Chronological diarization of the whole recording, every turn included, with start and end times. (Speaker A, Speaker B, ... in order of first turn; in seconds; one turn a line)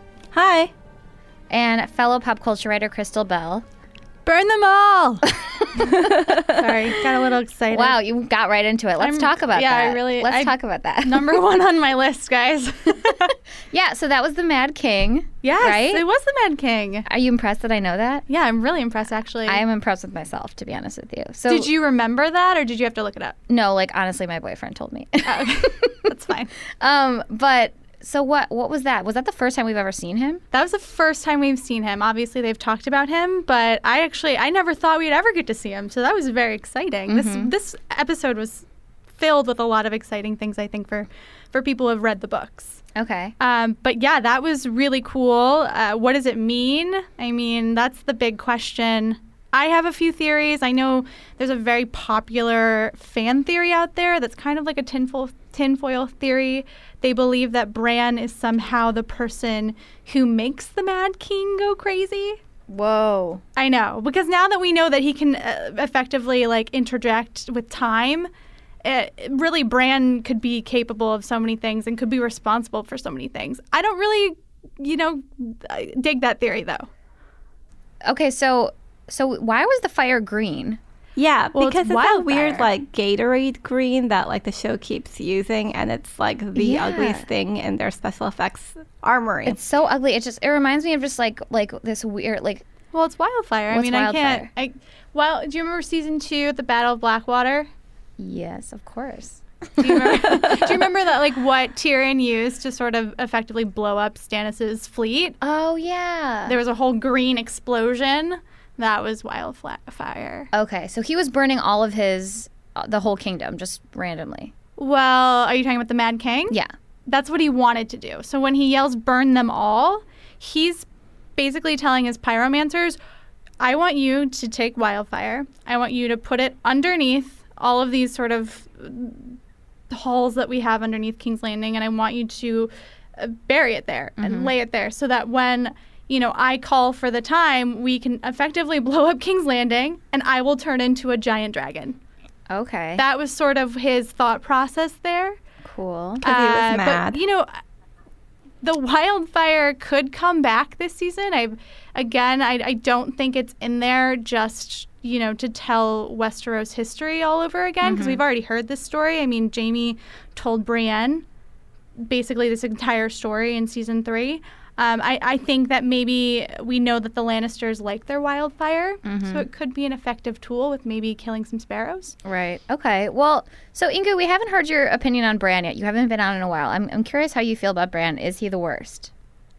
Speaker A: 0.3-0.7
Speaker B: 1.5-3.6
Speaker C: 4.2-8.0
Speaker B: 5.6-6.1
Speaker B: 7.7-11.4
Speaker C: 9.0-13.3
Speaker B: 13.7-16.0
Speaker C: 15.4-17.1
Speaker B: 17.1-18.2
Speaker C: 18.3-19.6
Speaker B: 19.5-21.7
Speaker C: 21.5-23.4
Speaker B: 23.5-25.9
Speaker C: 25.2-26.5
Speaker B: 26.8-30.4
Speaker C: 30.5-38.6
Speaker B: 37.1-37.5
Speaker C: 39.2-42.8
Speaker B: 43.0-43.3
Speaker C: 43.4-62.4
Speaker B: 62.7-63.4
Speaker C: 63.5-68.3
Speaker C: 68.8-76.9
Speaker B: 78.0-80.8
Speaker A: 81.2-89.6
Speaker C: 81.5-82.5
Speaker B: 86.5-87.2
Speaker B: 89.4-92.6
Speaker C: 92.9-97.7
Speaker B: 93.7-94.5
Speaker B: 98.2-100.5
Speaker C: 99.8-105.4
Speaker B: 105.4-106.5
Speaker C: 106.5-110.5
Speaker B: 110.5-114.5
Speaker C: 114.8-116.5
Speaker C: 117.1-120.8
Speaker C: 121.4-123.0
Speaker C: 123.6-129.4
Speaker C: 129.9-142.0
Speaker B: 134.2-134.5
Speaker B: 142.5-143.0
Speaker C: 142.9-145.4
Speaker B: 145.6-146.2
Speaker A: 146.2-147.2
Speaker C: 146.2-147.5
Speaker C: 148.6-161.2
Speaker B: 157.8-158.2
Speaker C: 162.0-172.2
Speaker B: 169.0-169.4
Speaker B: 172.2-179.1